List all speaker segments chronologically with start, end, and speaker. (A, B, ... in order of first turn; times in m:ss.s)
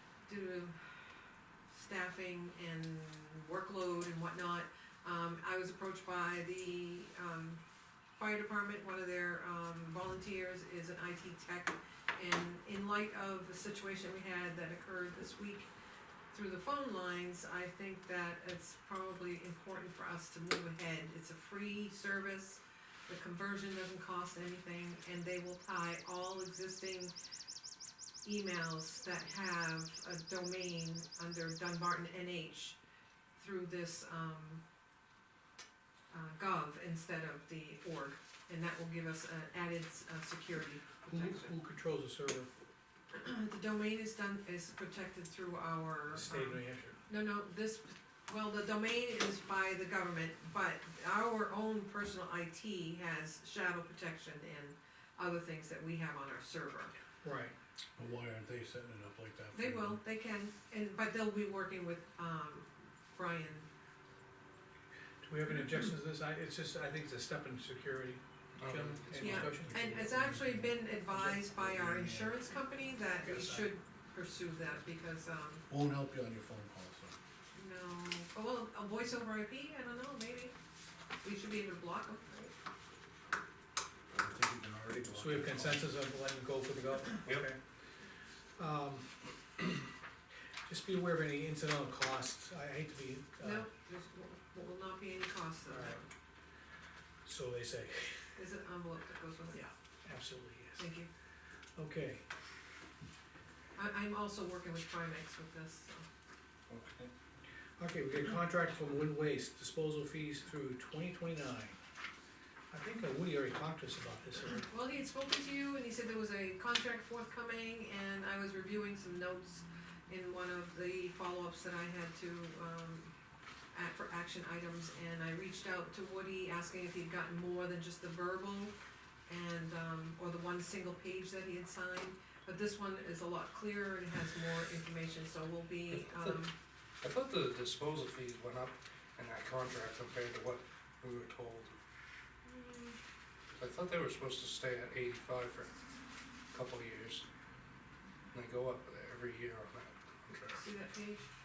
0:00.2-0:07.6 A
0:08.2-0:15.7 A
0:16.3-0:27.1 A
0:28.2-0:32.8 A
0:33.4-0:34.6 A
0:36.1-0:41.6 A
0:41.1-0:42.5 B
0:43.1-0:57.0 A
0:46.2-0:47.0 B
0:57.2-0:57.5 B
0:58.0-1:00.0 C
0:59.5-1:03.7 A
1:05.2-1:09.8 B
1:08.6-1:09.5 D
1:09.2-1:15.6 A
1:09.7-1:12.3 C
1:13.2-1:13.7 B
1:15.7-1:17.2 C
1:17.5-1:20.6 A
1:21.2-1:22.6 A
1:24.2-1:25.9 C
1:25.1-1:27.6 B
1:28.6-1:29.7 B
1:30.7-1:33.7 B
1:33.4-1:36.0 A
1:35.7-1:36.0 B
1:37.2-1:38.3 B
1:38.4-1:39.7 A
1:39.5-1:40.9 B
1:40.8-1:41.1 A
1:41.8-1:42.2 B
1:43.8-1:46.0 A
1:46.7-1:47.1 C
1:47.8-1:51.8 B
1:52.7-1:54.6 B
1:54.6-2:03.1 A
2:03.7-2:08.7 A
2:09.3-2:16.5 A
2:15.9-2:16.4 D
2:17.0-2:21.7 D
2:22.4-2:23.0 A
2:23.6-2:25.7 D
2:26.5-2:27.2 D
2:28.3-2:30.6 D
2:30.5-2:31.2 A